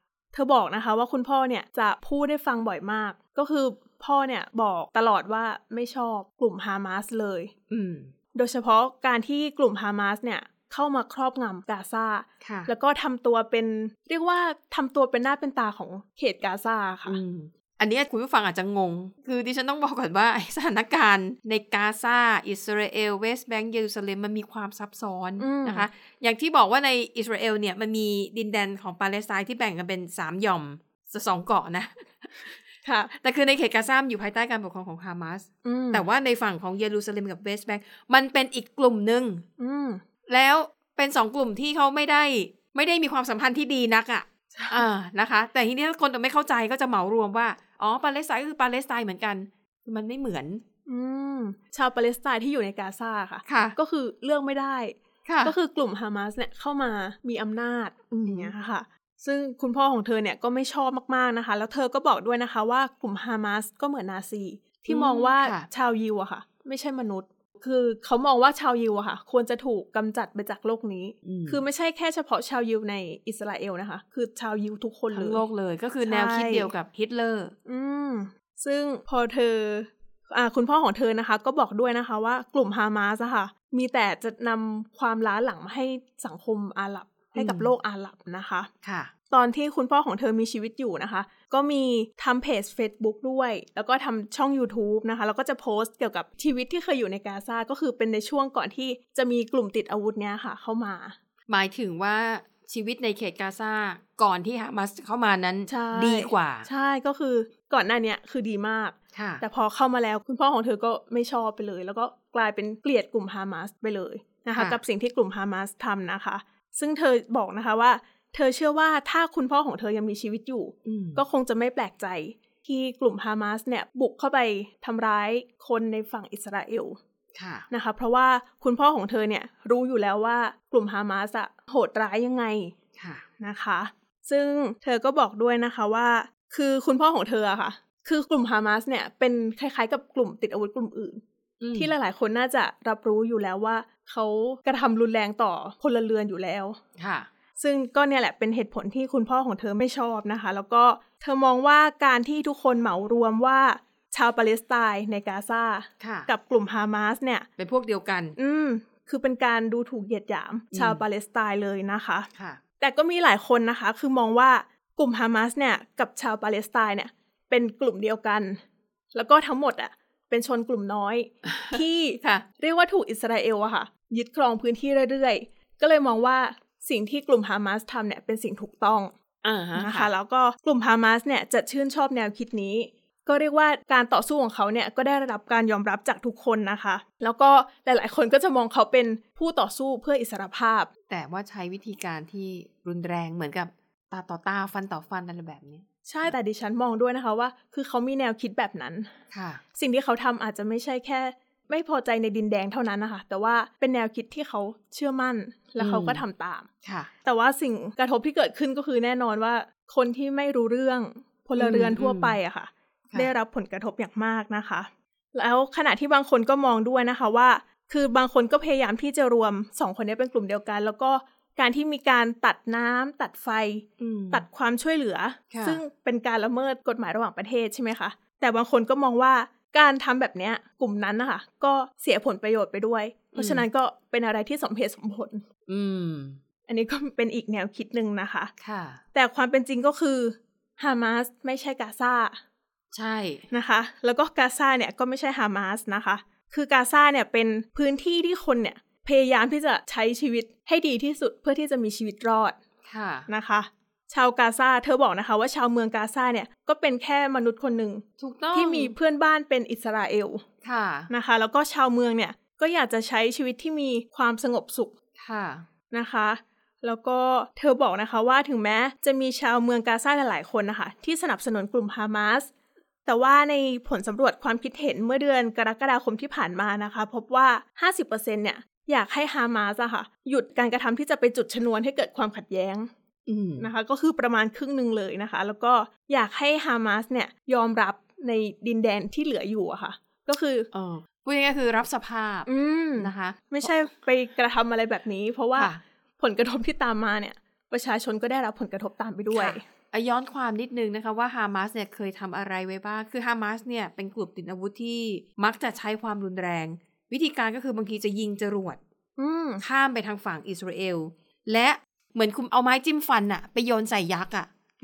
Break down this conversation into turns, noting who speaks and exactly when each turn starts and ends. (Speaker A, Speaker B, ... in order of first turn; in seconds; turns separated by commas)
Speaker A: 0.3-7.5, Speaker B: 7.7-8.1, Speaker A: 8.3-17.2, Speaker B: 12.4-12.7, Speaker B: 17.1-39.4, Speaker A: 25.4-25.9, Speaker A: 32.8-33.1, Speaker A: 35.6-36.0, Speaker A: 39.6-40.0, Speaker B: 40.3-50.6, Speaker A: 44.5-44.8, Speaker A: 50.9-75.4, Speaker B: 53.5-53.8, Speaker B: 55.2-55.5, Speaker B: 58.1-58.5, Speaker B: 64.9-65.7, Speaker B: 71.2-71.6, Speaker B: 75.1-77.5, Speaker A: 76.0-76.7, Speaker A: 77.7-88.7, Speaker B: 87.3-87.7, Speaker B: 88.8-89.1, Speaker A: 89.3-101.2, Speaker B: 101.5-106.7, Speaker A: 105.7-127.0, Speaker B: 109.1-109.4, Speaker B: 120.8-121.2, Speaker B: 127.3-127.7, Speaker A: 127.7-132.7, Speaker B: 132.9-133.2, Speaker A: 133.4-141.2, Speaker B: 141.6-141.9, Speaker A: 141.7-146.8, Speaker B: 147.0-147.3, Speaker A: 147.6-157.5, Speaker B: 156.0-156.3, Speaker B: 157.6-158.3, Speaker A: 158.3-162.3, Speaker B: 160.7-161.0, Speaker B: 162.3-162.6, Speaker A: 162.8-168.6, Speaker A: 169.1-179.1, Speaker B: 171.4-172.4, Speaker B: 179.4-180.1, Speaker A: 179.7-190.9, Speaker B: 191.1-196.3, Speaker A: 196.1-199.1, Speaker B: 199.3-199.6, Speaker A: 199.8-206.7, Speaker B: 205.8-206.2, Speaker B: 206.8-207.1, Speaker A: 207.2-235.4, Speaker B: 211.6-212.4, Speaker B: 224.0-224.4, Speaker B: 225.5-225.8, Speaker B: 233.3-233.6, Speaker B: 235.7-236.4, Speaker A: 236.7-238.5, Speaker B: 238.6-239.0, Speaker A: 239.1-242.4, Speaker B: 242.9-243.5, Speaker A: 243.5-252.6, Speaker B: 252.8-253.3, Speaker A: 253.3-260.4, Speaker B: 258.2-258.9, Speaker B: 260.6-261.1, Speaker A: 261.1-264.9, Speaker B: 265.2-265.6, Speaker A: 265.9-272.5, Speaker A: 273.1-282.9, Speaker B: 283.3-283.7, Speaker A: 283.6-290.7, Speaker B: 290.7-293.7, Speaker A: 292.4-299.6, Speaker B: 295.6-295.8, Speaker B: 299.3-308.8, Speaker A: 309.2-309.6, Speaker B: 309.6-314.5